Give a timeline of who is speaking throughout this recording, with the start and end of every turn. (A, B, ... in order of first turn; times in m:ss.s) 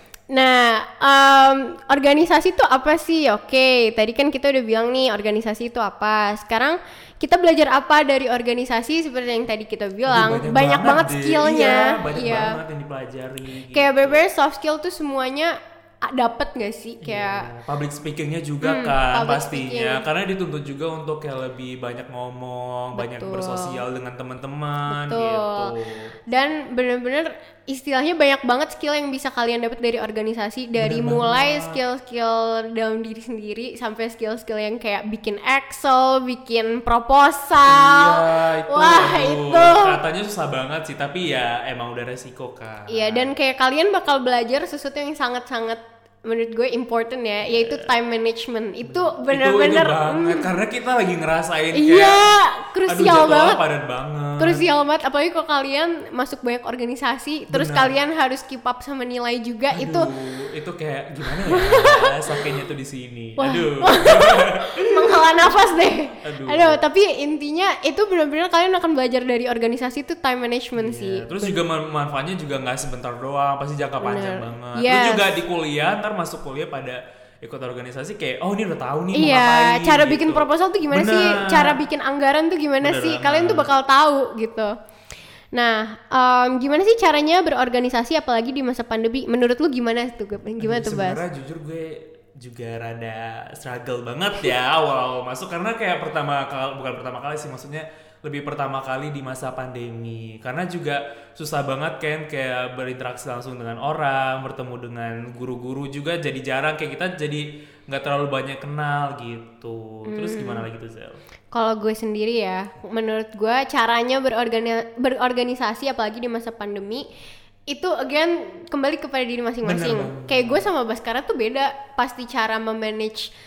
0:00.3-0:12.6 A
0:10.1-0:14.2 B
0:13.7-0:17.5 A
0:17.0-0:26.1 B
0:18.6-0:20.0 A
0:22.9-0:23.8 A
0:24.9-0:25.7 A
0:26.3-0:40.0 A
0:30.8-0:31.8 B
0:37.6-0:43.3 B
0:42.9-0:50.5 A
0:47.4-0:47.9 B
0:48.8-0:52.3 B
0:51.7-0:53.6 A
0:52.9-0:54.6 B
0:54.4-1:00.1 A
0:57.5-0:57.9 B
0:59.7-1:05.5 B
1:01.3-1:02.4 A
1:03.4-1:11.6 A
1:06.2-1:06.8 B
1:10.8-1:21.8 B
1:14.0-1:15.3 A
1:19.1-1:24.7 A
1:22.8-1:23.7 B
1:25.5-1:31.2 A
1:30.6-1:51.2 B
1:50.1-1:50.7 A
1:51.5-1:57.0 A
1:57.7-2:03.3 A
1:59.6-2:00.6 B